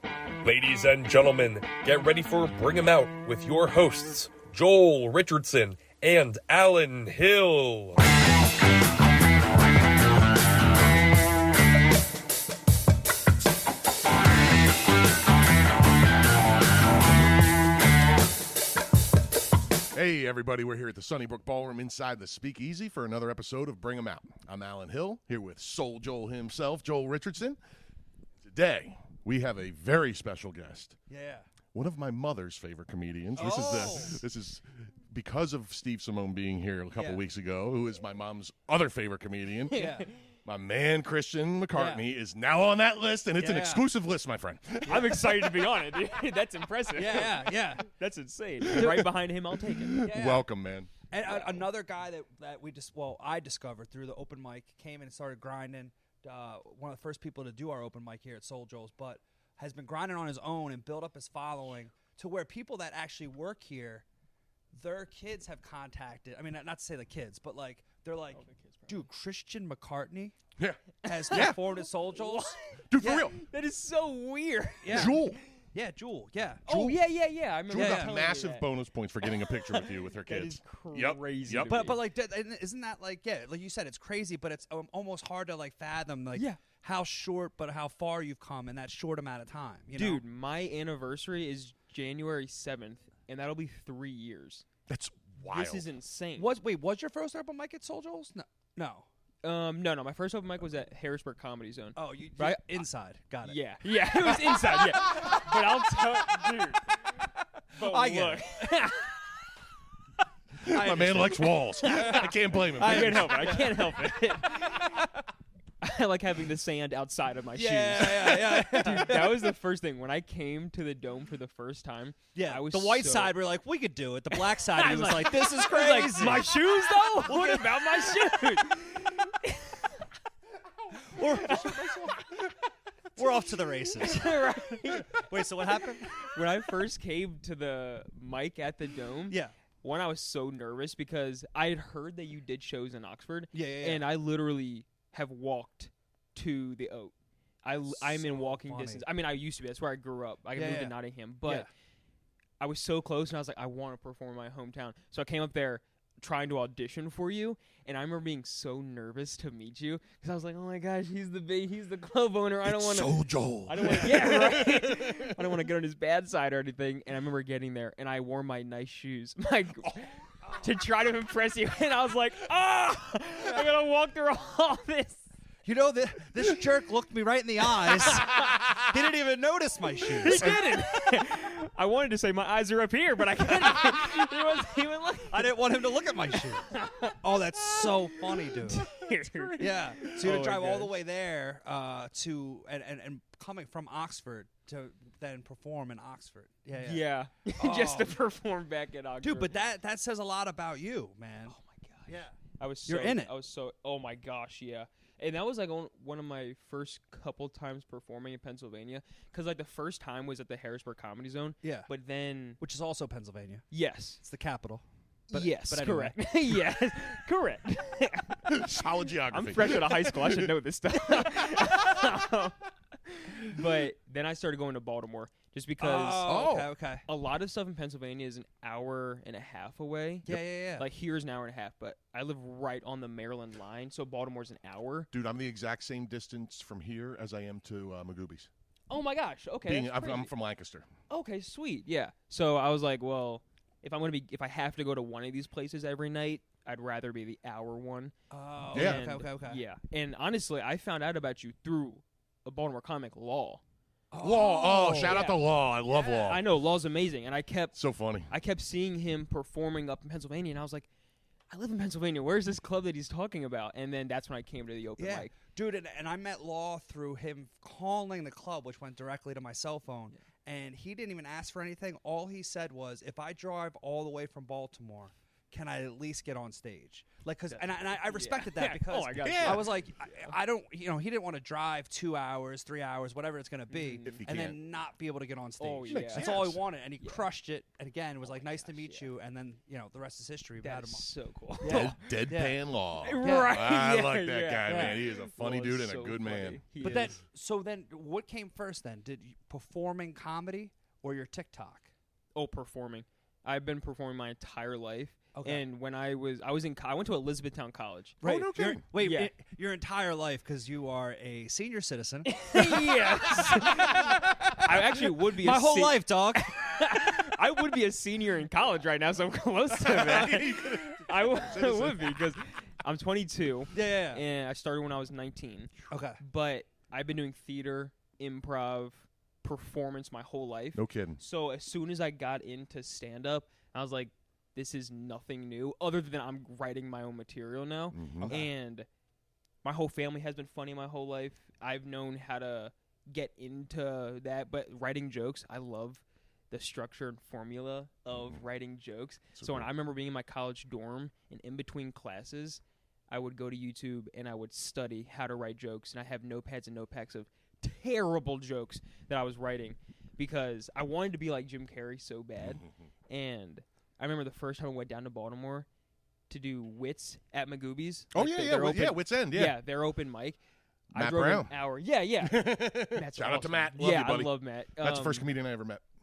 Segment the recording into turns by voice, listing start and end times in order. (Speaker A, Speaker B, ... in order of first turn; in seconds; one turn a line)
Speaker A: 0.4-8.0
Speaker B: 19.9-27.6
Speaker B: 28.4-30.9
Speaker C: 31.1-31.4
Speaker B: 31.7-39.8
Speaker C: 33.4-34.2
Speaker C: 37.0-37.2
Speaker D: 39.7-40.0
Speaker C: 39.7-40.1
Speaker B: 40.5-45.6
Speaker C: 41.7-42.0
Speaker C: 43.4-43.8
Speaker D: 44.9-50.1
Speaker C: 44.9-45.2
Speaker C: 46.9-47.8
Speaker B: 48.6-49.1
Speaker B: 49.7-50.9
Speaker C: 50.0-50.4
Speaker C: 51.1-64.0
Speaker C: 64.7-70.3
Speaker D: 68.3-69.0
Speaker B: 70.6-71.6
Speaker C: 71.0-73.3
Speaker D: 71.0-72.7
Speaker B: 72.9-73.4
Speaker D: 73.3-75.4
Speaker C: 74.8-75.1
Speaker B: 74.9-75.4
Speaker C: 75.7-76.7
Speaker B: 76.7-77.0
Speaker D: 76.7-78.6
Speaker B: 77.7-81.7
Speaker C: 77.7-78.1
Speaker D: 79.2-82.0
Speaker C: 81.6-90.2
Speaker D: 86.3-86.6
Speaker D: 90.0-94.7
Speaker B: 94.9-95.8
Speaker D: 95.4-96.5
Speaker C: 96.4-99.1
Speaker D: 99.4-102.6
Speaker C: 102.0-105.4
Speaker D: 103.4-107.0
Speaker D: 107.7-109.2
Speaker C: 107.7-108.7
Speaker C: 110.6-115.2
Speaker B: 110.6-113.6
Speaker D: 111.8-115.0
Speaker D: 115.8-123.4
Speaker C: 117.5-119.5
Speaker C: 122.3-128.4
Speaker D: 124.3-129.9
Speaker C: 131.0-132.2
Speaker D: 131.2-132.0
Speaker C: 133.2-134.4
Speaker D: 134.0-135.2
Speaker C: 135.0-136.4
Speaker D: 135.8-151.7
Speaker C: 139.3-139.5
Speaker C: 143.5-144.0
Speaker C: 147.9-149.1
Speaker C: 150.5-151.7
Speaker D: 152.6-175.2
Speaker B: 162.6-165.4
Speaker C: 175.6-180.4
Speaker B: 178.1-178.7
Speaker D: 180.2-185.5
Speaker C: 185.3-188.8
Speaker D: 186.6-190.9
Speaker B: 189.0-190.3
Speaker C: 189.6-198.2
Speaker D: 196.8-199.5
Speaker C: 199.2-201.5
Speaker D: 201.5-212.6
Speaker C: 202.1-202.3
Speaker C: 202.9-203.3
Speaker C: 211.6-211.9
Speaker C: 212.6-213.7
Speaker D: 213.7-214.2
Speaker C: 214.2-216.3
Speaker D: 215.3-218.7
Speaker B: 218.5-220.5
Speaker D: 219.3-226.3
Speaker C: 225.8-227.0
Speaker B: 226.2-226.7
Speaker D: 227.1-235.1
Speaker C: 230.3-230.8
Speaker B: 235.1-238.5
Speaker D: 238.9-240.3
Speaker B: 239.7-240.9
Speaker D: 241.1-248.1
Speaker C: 248.3-249.6
Speaker B: 248.7-249.0
Speaker D: 248.7-253.6
Speaker C: 254.1-255.2
Speaker B: 254.2-256.4
Speaker D: 255.0-255.4
Speaker C: 255.9-256.4
Speaker D: 256.2-257.7
Speaker B: 257.7-258.3
Speaker D: 258.3-260.9
Speaker D: 261.5-265.3
Speaker C: 265.0-291.1
Speaker D: 277.5-280.3
Speaker B: 279.2-279.7
Speaker D: 283.7-284.2
Speaker B: 284.0-284.6
Speaker D: 285.6-286.3
Speaker B: 285.9-286.6
Speaker D: 288.3-289.1
Speaker D: 290.6-292.2
Speaker C: 291.6-292.6
Speaker B: 291.6-297.0
Speaker D: 293.0-297.1
Speaker C: 293.2-293.5
Speaker C: 294.6-295.0
Speaker C: 296.8-301.9
Speaker D: 302.3-308.2
Speaker C: 305.3-305.6
Speaker C: 308.2-317.1
Speaker B: 308.2-308.8
Speaker D: 308.9-309.3
Speaker D: 312.3-338.9
Speaker B: 319.8-322.2
Speaker C: 323.7-324.2
Speaker C: 325.9-326.2
Speaker B: 330.7-331.2
Speaker B: 337.9-338.4
Speaker C: 338.2-338.5
Speaker D: 339.6-365.7
Speaker B: 348.1-348.4
Speaker B: 349.3-349.7
Speaker D: 366.3-370.4
Speaker B: 368.1-369.6
Speaker D: 370.9-375.3
Speaker B: 370.9-371.5
Speaker B: 372.2-375.8